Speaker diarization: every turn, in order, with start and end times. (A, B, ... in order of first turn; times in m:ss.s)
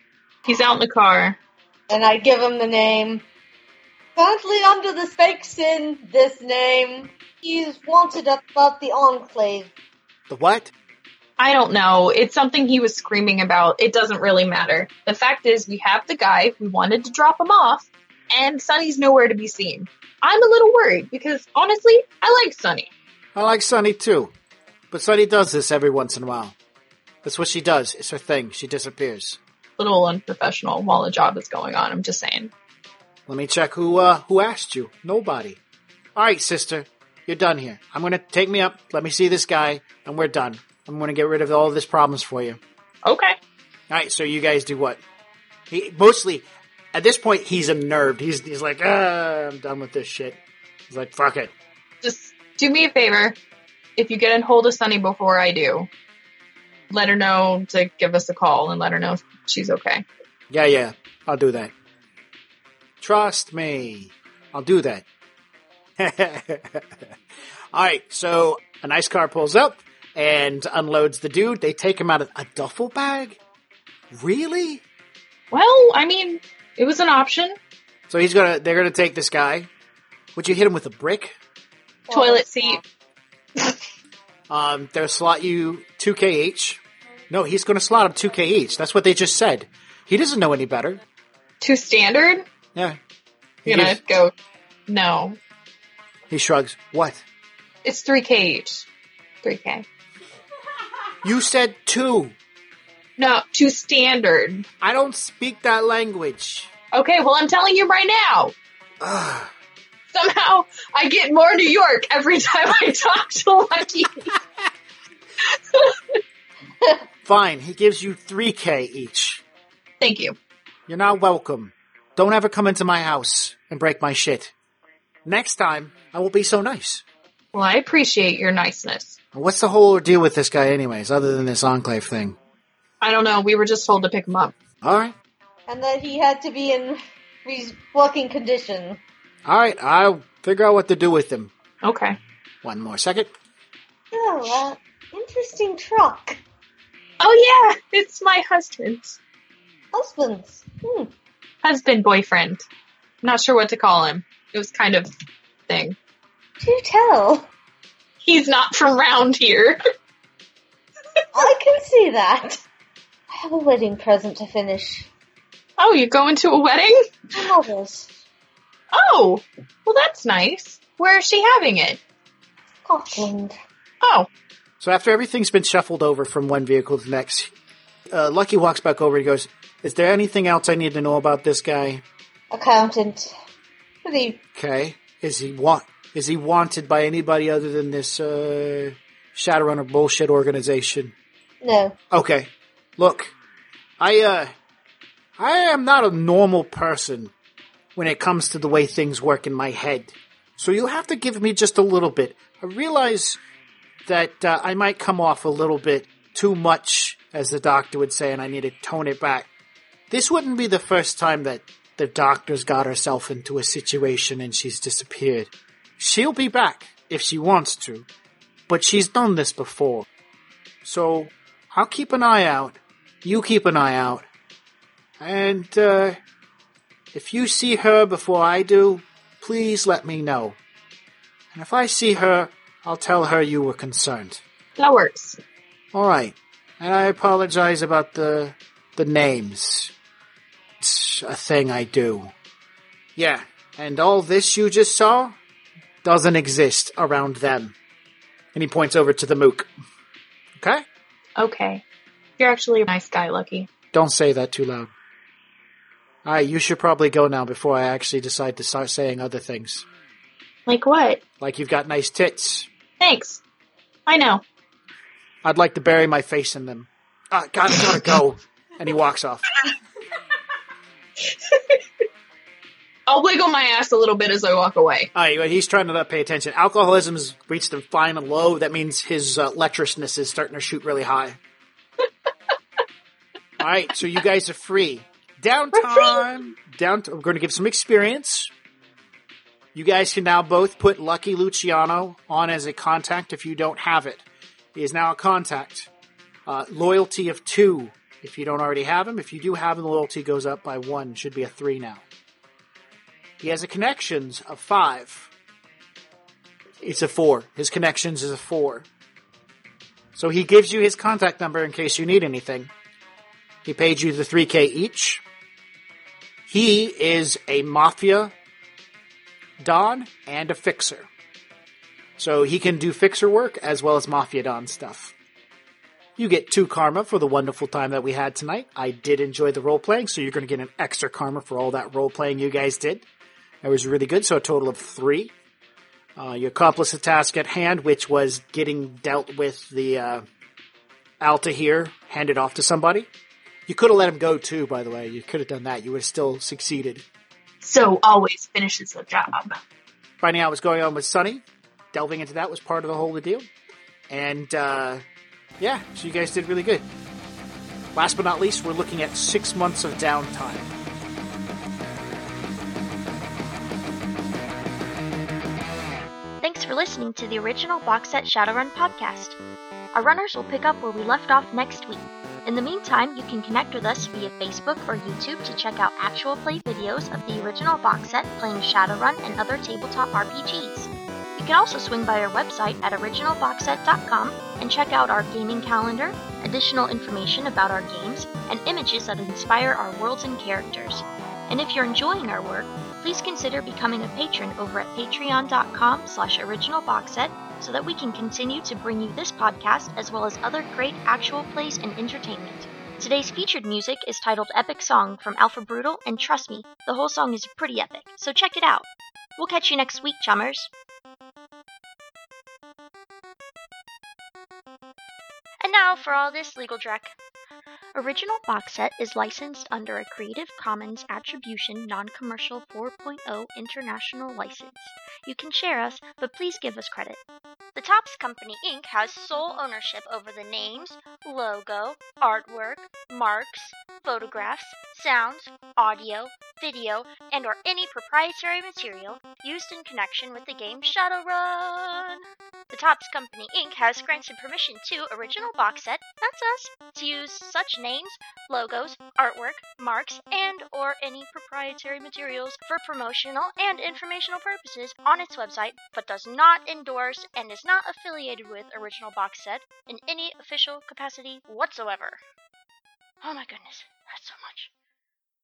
0:00.4-0:01.4 A
0:01.9-0:03.2 B
0:04.2-0:09.7 B
0:10.3-0:10.7 C
0:11.4-0:22.9 A
0:23.4-0:24.3 C
0:24.9-0:26.6 C
0:27.2-0:29.4 C
0:29.8-0:32.5 A
0:33.3-0:35.6 C
0:36.2-0:42.6 C
0:43.0-0:43.4 A
0:43.9-0:45.0 C
0:45.7-0:51.5 C
0:52.0-0:53.4 A
0:54.0-0:55.9 A
0:56.9-1:00.0 A
1:00.5-1:01.7 C
1:03.0-1:05.0 C
1:06.0-1:07.0 C
1:07.7-1:13.4 C
1:14.1-1:14.8 C
1:15.5-1:17.6 A
1:18.1-1:19.7 C
1:20.4-1:21.4 C
1:22.1-1:22.8 B
1:22.1-1:22.8 A
1:24.5-1:31.0 C
1:31.6-1:32.4 A
1:33.6-1:34.0 C
1:33.7-1:34.3 A
1:34.9-1:35.4 A
1:36.3-1:37.2 C
1:37.8-1:38.9 A
1:39.4-1:39.8 A
1:41.2-1:42.4 C
1:43.2-1:44.6 A
1:44.8-1:46.7 C
1:46.9-1:48.6 A
1:49.0-1:49.5 C
1:50.1-1:54.4 A
1:55.4-1:56.2 A
1:57.2-1:59.4 C
2:00.0-2:00.4 A
2:00.9-2:04.5 C
2:05.2-2:07.0 C
2:07.5-2:09.2 A
2:09.3-2:12.4 C
2:13.0-2:14.5 A
2:14.8-2:15.1 C
2:15.7-2:19.0 B
2:19.4-2:21.5 C
2:21.8-2:22.2 A
2:22.6-2:23.3 C
2:24.1-2:26.4 B
2:27.2-2:29.2 A
2:29.9-2:31.1 B
2:31.6-2:32.7 A
2:33.2-2:35.1 A
2:35.7-2:36.0 A
2:36.6-2:37.5 B
2:38.2-2:39.8 A
2:41.3-2:42.6 B
2:43.3-2:45.1 B
2:45.8-2:47.0 A
2:47.3-2:48.2 B
2:48.9-2:52.0 A
2:52.9-2:53.5 B
2:54.0-2:54.3 A
2:54.8-2:57.5 C
2:58.1-3:02.0 C
3:02.5-3:03.3 B
3:04.0-3:04.4 B
3:04.6-3:11.1 C
3:11.6-3:12.0 B
3:12.1-3:13.3 C
3:14.0-3:14.5 C
3:15.4-3:17.3 C
3:18.0-3:23.4 C
3:24.0-3:29.5 C
3:30.1-3:38.1 C
3:38.7-3:40.1 C
3:40.8-3:44.2 C
3:45.2-3:46.2 C
3:47.1-3:50.6 C
3:51.5-3:54.4 C
3:54.8-3:55.4 A
3:55.9-3:59.9 C
4:00.8-4:02.3 C
4:03.2-4:05.4 C
4:06.0-4:07.7 C
4:08.5-4:09.7 C
4:10.6-4:10.8 C
4:11.4-4:11.8 A
4:12.4-4:13.7 A
4:13.9-4:14.9 C
4:16.2-4:19.9 C
4:20.7-4:21.2 A
4:21.4-4:22.7 C
4:23.0-4:23.4 A
4:24.1-4:24.4 A
4:25.4-4:29.4 C
4:31.2-4:31.8 A
4:33.1-4:35.1 A
4:35.1-4:41.4 C
4:43.6-4:48.5 C
4:45.7-4:46.2 A
4:49.7-4:54.2 C
4:54.7-4:55.9 C
4:56.4-5:02.0 C
5:03.4-5:05.3 C
5:06.8-5:08.9 C
5:10.2-5:12.7 C
5:13.6-5:15.2 C
5:16.5-5:18.3 C
5:19.6-5:21.1 C
5:22.2-5:25.1 C
5:26.2-5:33.1 C
5:33.6-5:35.3 C
5:36.2-5:40.2 C
5:41.2-5:43.1 C
5:43.7-5:47.0 C
5:47.6-5:49.6 A
5:50.2-5:53.5 C
5:54.1-5:55.0 C
5:55.6-5:56.8 C
5:57.9-6:00.7 C
6:06.4-6:09.4 D
6:09.9-6:50.7 D
6:55.6-6:57.2 D
6:57.9-7:07.2 D
7:07.7-7:42.2 D
7:43.2-7:44.7 D